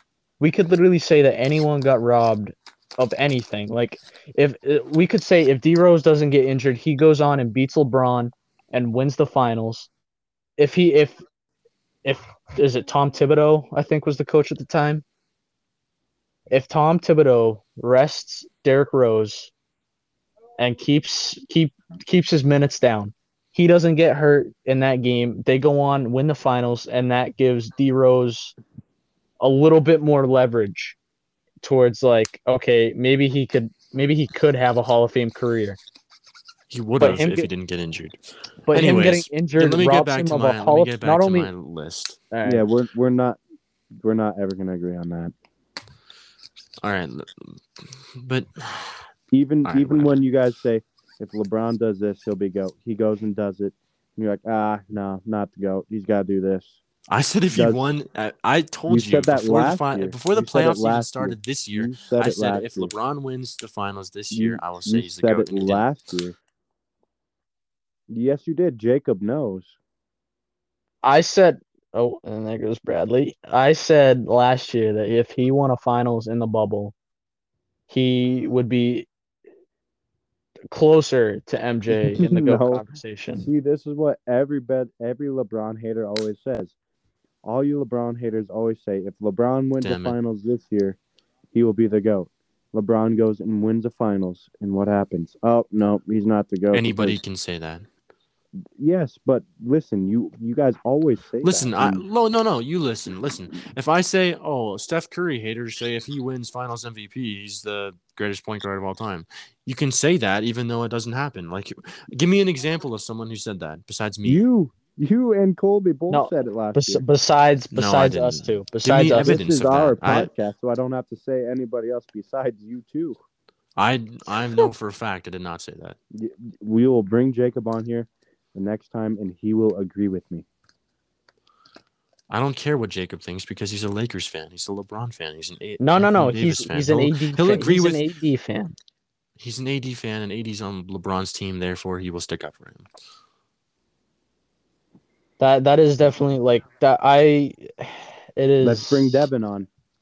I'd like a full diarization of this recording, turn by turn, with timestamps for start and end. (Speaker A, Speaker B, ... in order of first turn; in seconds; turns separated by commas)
Speaker A: 0.4-9.9, Speaker A: 10.6-11.2, Speaker A: 12.0-15.0, Speaker A: 16.5-19.5, Speaker A: 20.6-28.5, Speaker A: 29.4-31.0, Speaker A: 31.6-35.8, Speaker B: 36.7-38.2, Speaker A: 37.0-37.5, Speaker A: 38.7-41.5, Speaker B: 38.7-42.2, Speaker A: 42.3-42.6, Speaker C: 42.4-43.4, Speaker C: 44.0-45.3, Speaker B: 46.8-47.6, Speaker B: 48.1-49.1, Speaker C: 49.3-56.8, Speaker B: 49.6-50.2, Speaker B: 57.1-65.9, Speaker C: 57.5-57.8, Speaker C: 58.9-62.9, Speaker C: 64.3-66.4, Speaker C: 68.1-69.7, Speaker A: 71.0-76.9, Speaker A: 77.9-79.1, Speaker A: 80.7-83.5, Speaker C: 81.9-86.7, Speaker C: 87.4-91.0, Speaker B: 89.8-90.2, Speaker C: 91.5-97.2, Speaker B: 96.7-97.9, Speaker C: 98.8-102.0, Speaker B: 101.4-114.4, Speaker C: 114.2-117.0, Speaker A: 116.1-119.4, Speaker B: 117.7-120.3, Speaker C: 119.1-123.2, Speaker B: 123.8-126.0, Speaker C: 126.1-130.4, Speaker B: 132.3-138.0, Speaker A: 135.8-138.8, Speaker B: 139.4-142.8, Speaker A: 145.4-149.3, Speaker C: 148.6-149.7